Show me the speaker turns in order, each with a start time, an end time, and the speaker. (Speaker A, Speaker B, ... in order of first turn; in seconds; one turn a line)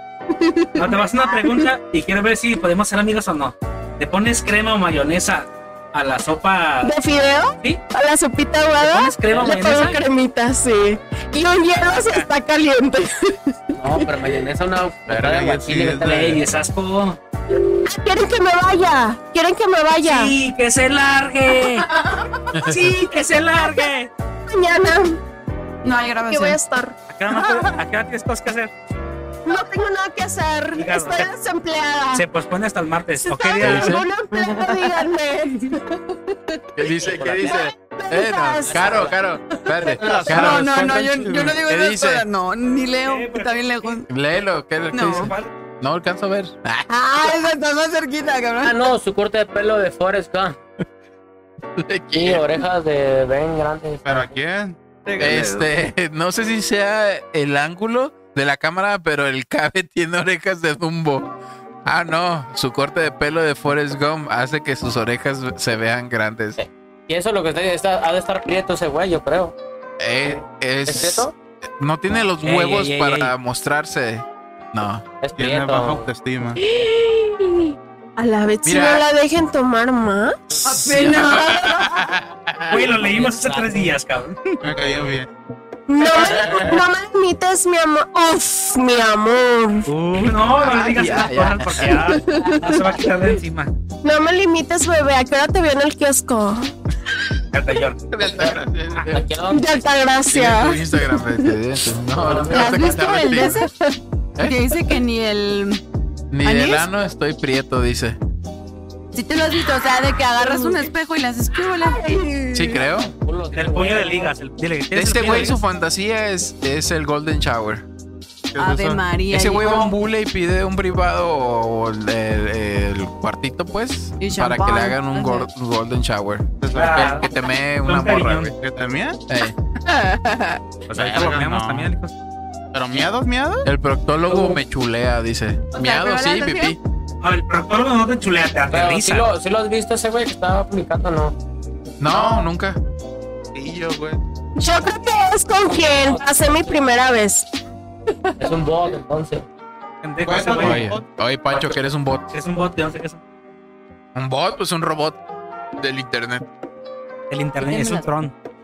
Speaker A: 0.4-1.7
Speaker B: 0.7-6.9
Speaker A: 6.8-13.7
Speaker B: 8.8-10.0
Speaker B: 11.7-12.3
Speaker C: 13.7-16.4
Speaker D: 15.1-16.4
Speaker B: 16.1-17.2
Speaker A: 17.7-20.3
Speaker B: 20.0-21.9
Speaker E: 22.5-22.8
Speaker B: 22.6-24.1
Speaker A: 22.7-23.8
Speaker A: 24.5-25.2
Speaker F: 25.8-26.6
Speaker A: 26.3-27.0
Speaker B: 27.1-28.7
Speaker A: 29.4-32.2
Speaker B: 30.8-31.3
Speaker B: 32.1-34.0
Speaker A: 33.2-35.8
Speaker E: 33.6-34.0
Speaker F: 34.4-34.8
Speaker E: 36.7-40.9
Speaker C: 37.0-37.6
Speaker A: 37.4-39.0
Speaker C: 38.6-39.2
Speaker D: 39.9-41.6
Speaker C: 40.0-40.3
Speaker F: 40.3-44.1
Speaker E: 41.6-42.2
Speaker B: 43.0-44.0
Speaker E: 44.1-46.9
Speaker F: 44.9-45.3
Speaker B: 45.1-45.5
Speaker F: 46.9-48.8
Speaker C: 48.6-50.6
Speaker E: 51.8-52.6
Speaker C: 52.1-54.3
Speaker D: 54.0-55.4
Speaker F: 55.1-55.6
Speaker E: 55.2-61.3
Speaker E: 61.8-66.6
Speaker C: 66.6-69.5
Speaker E: 70.0-71.3
Speaker C: 70.8-71.3
Speaker E: 71.8-75.0
Speaker B: 72.4-73.3
Speaker C: 75.2-76.1
Speaker D: 75.3-76.6
Speaker A: 76.6-80.4
Speaker E: 78.6-79.0
Speaker F: 80.6-82.0
Speaker E: 80.7-82.9
Speaker B: 82.7-84.4
Speaker C: 83.1-83.9
Speaker D: 84.6-85.3
Speaker A: 85.9-89.9
Speaker D: 86.4-86.7
Speaker B: 89.9-93.7
Speaker E: 90.6-92.1
Speaker F: 92.2-92.7
Speaker A: 94.0-96.7
Speaker B: 97.5-98.3
Speaker E: 98.1-99.2
Speaker C: 99.1-99.8
Speaker A: 99.5-101.5
Speaker E: 100.3-103.7
Speaker C: 102.1-103.1
Speaker F: 102.5-103.7
Speaker E: 104.4-104.7
Speaker F: 104.4-105.8
Speaker E: 106.3-108.2
Speaker F: 106.4-106.9
Speaker F: 109.1-112.8
Speaker A: 110.4-110.8
Speaker E: 112.5-113.1
Speaker C: 112.9-114.3
Speaker B: 113.5-115.6
Speaker E: 114.9-117.8
Speaker D: 118.5-119.0
Speaker F: 118.6-119.9
Speaker E: 119.3-128.5
Speaker F: 124.2-125.5
Speaker D: 126.6-127.2
Speaker B: 126.7-127.3
Speaker B: 127.8-128.5
Speaker D: 128.5-129.2
Speaker E: 129.3-129.5
Speaker F: 129.9-130.6
Speaker D: 130.9-131.9
Speaker B: 130.9-132.1
Speaker C: 130.9-131.5
Speaker D: 132.7-133.7
Speaker E: 133.6-136.8
Speaker F: 135.7-136.7
Speaker B: 137.2-139.3
Speaker C: 138.7-141.3
Speaker E: 142.0-142.8
Speaker D: 143.5-144.2
Speaker A: 144.6-147.5
Speaker C: 145.9-146.3
Speaker C: 148.4-149.4
Speaker B: 150.0-150.9
Speaker D: 150.2-151.1
Speaker E: 150.6-152.2
Speaker B: 152.3-153.2
Speaker E: 154.1-155.2
Speaker E: 155.8-156.5
Speaker B: 157.3-158.3
Speaker F: 157.7-158.1